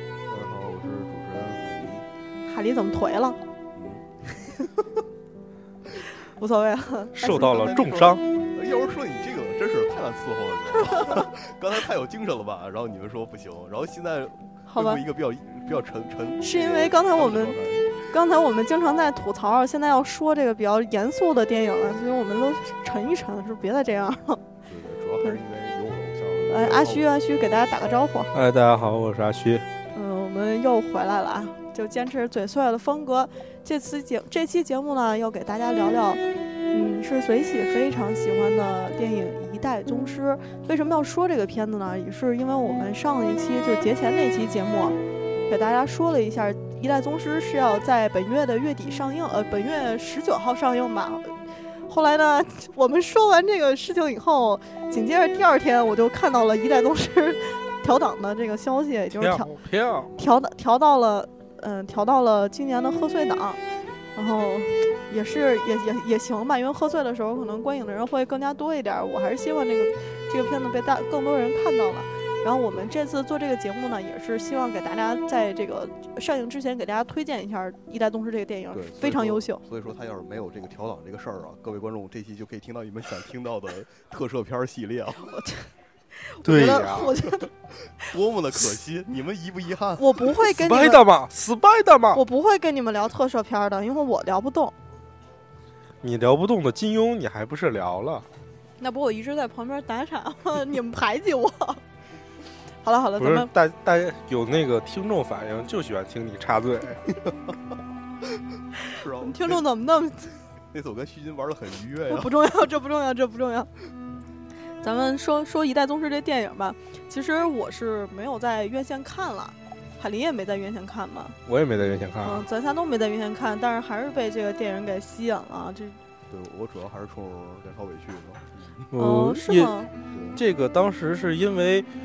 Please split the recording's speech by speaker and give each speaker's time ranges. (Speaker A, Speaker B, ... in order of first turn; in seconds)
Speaker A: 0.3-2.1, 3.8-4.0, 7.6-18.0, 24.7-27.1, 78.7-85.3, 87.8-90.1, 108.9-109.6, 110.7-112.3, 126.3-128.9, 130.1-130.4
Speaker B: 2.5-3.4, 6.2-8.1, 10.8-11.3, 14.7-15.0, 16.4-24.4, 26.5-28.3, 29.9-45.0, 45.5-59.5, 60.1-63.6, 64.2-79.6, 85.3-87.5, 90.0-91.0, 92.1-94.8, 98.8-101.8, 102.8-103.5, 108.9-110.4, 112.1-113.7, 114.8-121.4, 122.2-126.0, 129.0-129.9
Speaker C: 7.2-8.2, 28.3-29.7, 59.1-60.1, 86.4-87.2, 90.4-92.2, 96.0-98.2, 103.2-107.1, 121.5-122.5, 128.9-129.8, 130.3-131.9